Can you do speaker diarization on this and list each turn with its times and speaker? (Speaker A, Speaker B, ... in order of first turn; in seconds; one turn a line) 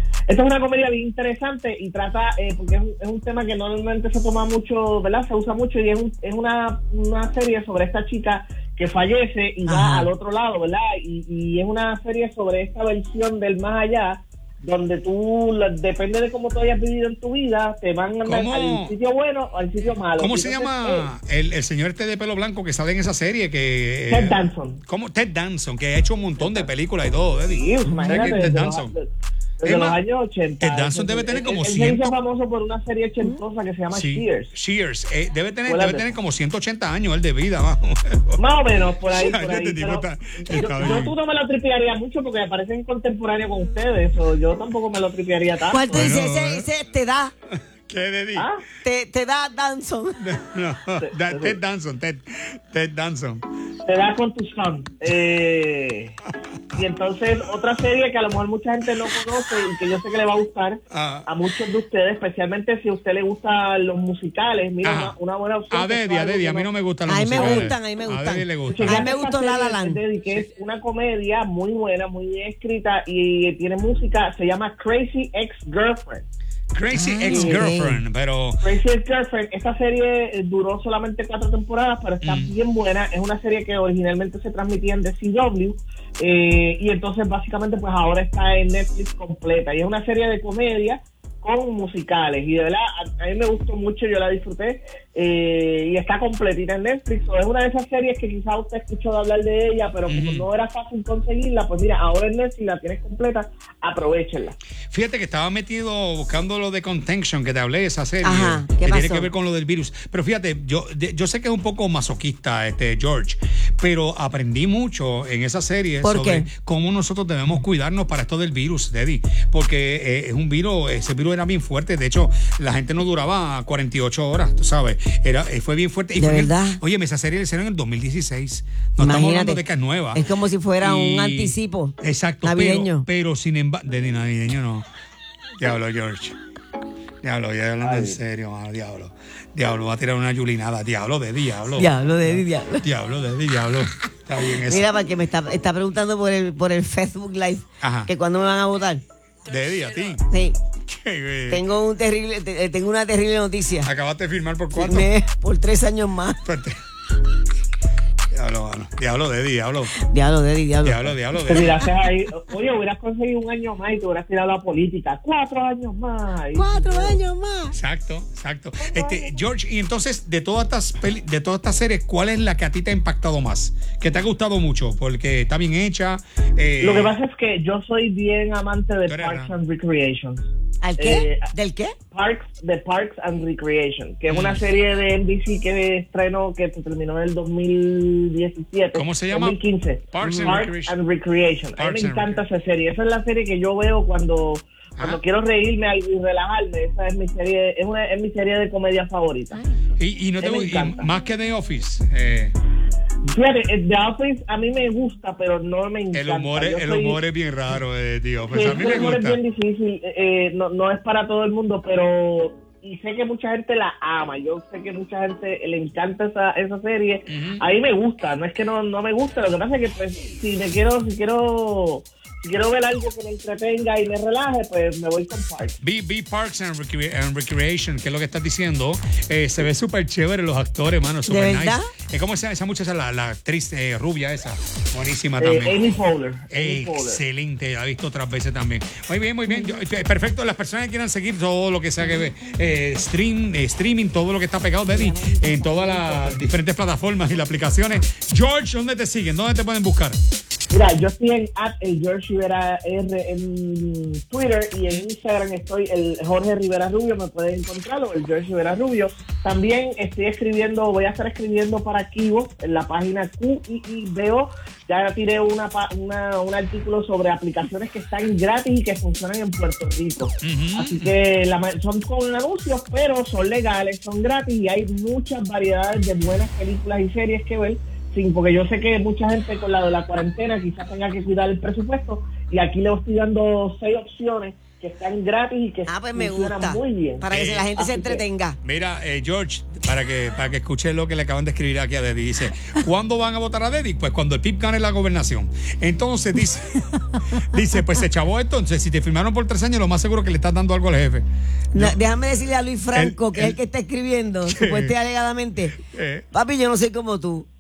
Speaker A: 0.3-21.1
Speaker B: 9.7-10.1
Speaker C: 18.2-18.9
Speaker C: 20.2-28.9
Speaker A: 24.1-24.8
Speaker A: 26.4-26.7
Speaker A: 27.5-29.1
Speaker A: 29.6-34.5
Speaker C: 29.6-30.0
Speaker C: 30.6-32.1
Speaker C: 33.9-38.4
Speaker A: 35.7-36.1
Speaker A: 38.4-46.2
Speaker C: 39.1-41.1
Speaker B: 40.5-41.0
Speaker B: 45.7-47.3
Speaker C: 45.9-46.7
Speaker C: 47.5-48.5
Speaker A: 48.4-48.6
Speaker B: 48.8-50.2
Speaker C: 50.2-53.4
Speaker A: 51.0-51.6
Speaker A: 53.9-56.2
Speaker A: 56.7-66.7
Speaker C: 60.9-61.3
Speaker C: 64.8-65.2
Speaker C: 65.7-69.1
Speaker B: 67.1-70.0
Speaker A: 67.3-67.7
Speaker A: 68.7-76.2
Speaker C: 76.7-78.6
Speaker B: 76.9-78.0
Speaker A: 77.2-77.7
Speaker A: 78.6-104.5
Speaker C: 82.2-82.5
Speaker C: 100.1-100.5
Speaker C: 104.9-130.2
Speaker B: 108.2-109.3
Speaker B: 116.0-116.5
Speaker B: 126.2-126.8
Speaker B: 129.0-129.6
Speaker B: 130.1-133.1
Speaker C: 130.8-134.8
Speaker C: 135.6-136.4
Speaker C: 137.2-144.9
Speaker A: 137.8-138.2
Speaker B: 141.8-142.8
Speaker B: 144.4-149.0
Speaker C: 147.8-148.1
Speaker C: 149.5-150.3
Speaker B: 150.3-150.6
Speaker C: 150.9-151.6
Speaker B: 151.5-153.9
Speaker C: 153.8-155.1
Speaker B: 154.7-156.4
Speaker C: 156.4-156.8
Speaker C: 158.3-160.0
Speaker B: 159.9-161.2
Speaker C: 160.8-161.9
Speaker A: 161.5-167.2
Speaker B: 166.6-167.8
Speaker C: 167.7-177.1
Speaker A: 168.8-169.4
Speaker A: 176.8-180.5
Speaker C: 179.1-179.5
Speaker B: 180.8-182.0
Speaker A: 181.0-181.5
Speaker A: 182.1-199.6
Speaker C: 184.3-184.6
Speaker C: 188.9-189.6
Speaker C: 190.1-191.0
Speaker B: 190.2-190.7
Speaker C: 191.8-192.4
Speaker C: 200.0-202.5
Speaker A: 200.4-201.1
Speaker A: 203.2-207.2
Speaker C: 206.1-209.4
Speaker A: 208.5-225.8
Speaker C: 217.3-217.6
Speaker C: 225.8-235.9
Speaker B: 231.3-231.9
Speaker A: 235.4-237.2
Speaker C: 236.5-250.2
Speaker B: 239.5-239.8
Speaker B: 244.9-246.3
Speaker A: 250.7-288.2
Speaker C: 270.4-271.1
Speaker B: 285.9-288.6
Speaker C: 287.3-287.7
Speaker C: 288.6-302.0
Speaker B: 301.7-305.8
Speaker C: 302.9-303.6
Speaker C: 304.5-304.9
Speaker C: 305.8-306.3
Speaker B: 306.3-307.5